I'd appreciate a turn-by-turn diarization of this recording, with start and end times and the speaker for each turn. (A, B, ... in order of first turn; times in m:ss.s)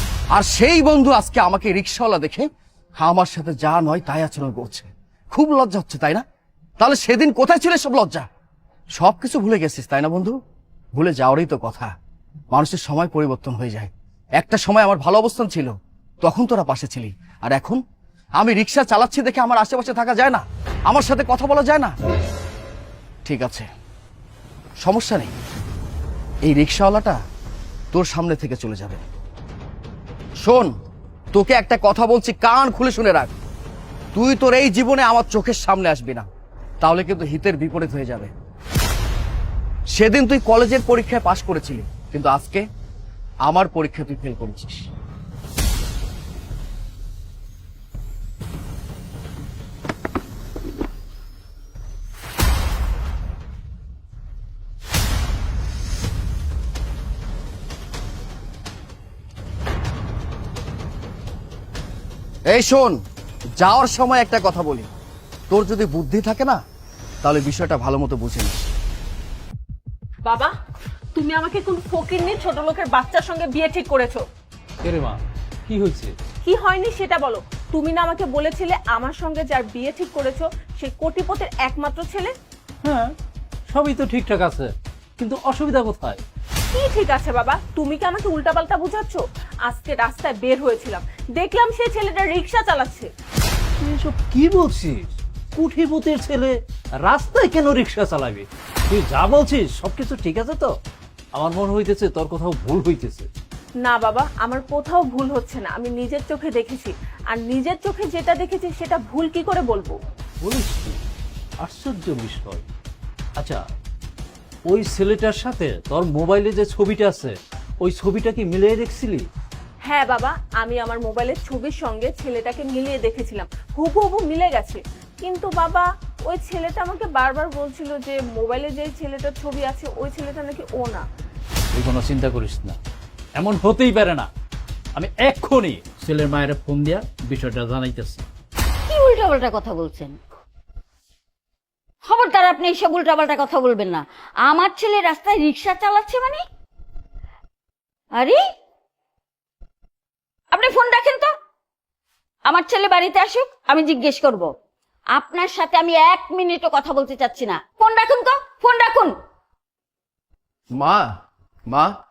0:00.3-0:06.2 A
0:06.8-0:08.3 A
0:09.0-0:10.4 A
0:10.9-0:11.9 A
0:12.5-0:17.8 A
0:18.4-0:21.9 A
0:23.2-0:23.7 A
0:24.8-0:25.3 A
0:26.4-0:27.2 A
0:27.9-0:29.0 A
0:30.4-0:30.7 A
0:31.3-0:33.3 A
0:34.1-0:36.3 A
0:36.8-0:38.3 A
0:39.9-0:42.6 A
0:43.4-0:44.9 A
1:02.5-1:03.0 A
1:03.6-1:04.9 A
1:05.5-1:06.6 A
1:07.2-1:08.7 A
1:10.2-1:10.5 B
1:11.1-1:14.2 B
1:14.8-1:16.1 C
1:16.4-1:22.3 B
1:22.8-1:23.1 C
1:23.7-1:26.2 C
1:26.7-1:33.1 B
1:33.8-1:40.7 C
1:41.3-1:43.3 C
1:43.8-1:50.0 B
1:50.4-1:51.0 C
1:51.6-1:52.6 C
1:54.7-1:59.3 C
1:59.8-2:11.0 B
2:11.7-2:12.8 C
2:13.4-2:14.3 C
2:14.9-2:18.2 C
2:18.9-2:20.2 D
2:22.0-2:26.4 D
2:28.1-2:28.4 D
2:30.5-2:31.3 D
2:32.4-2:34.5 D
2:35.1-2:39.1 D
2:40.8-2:41.0 A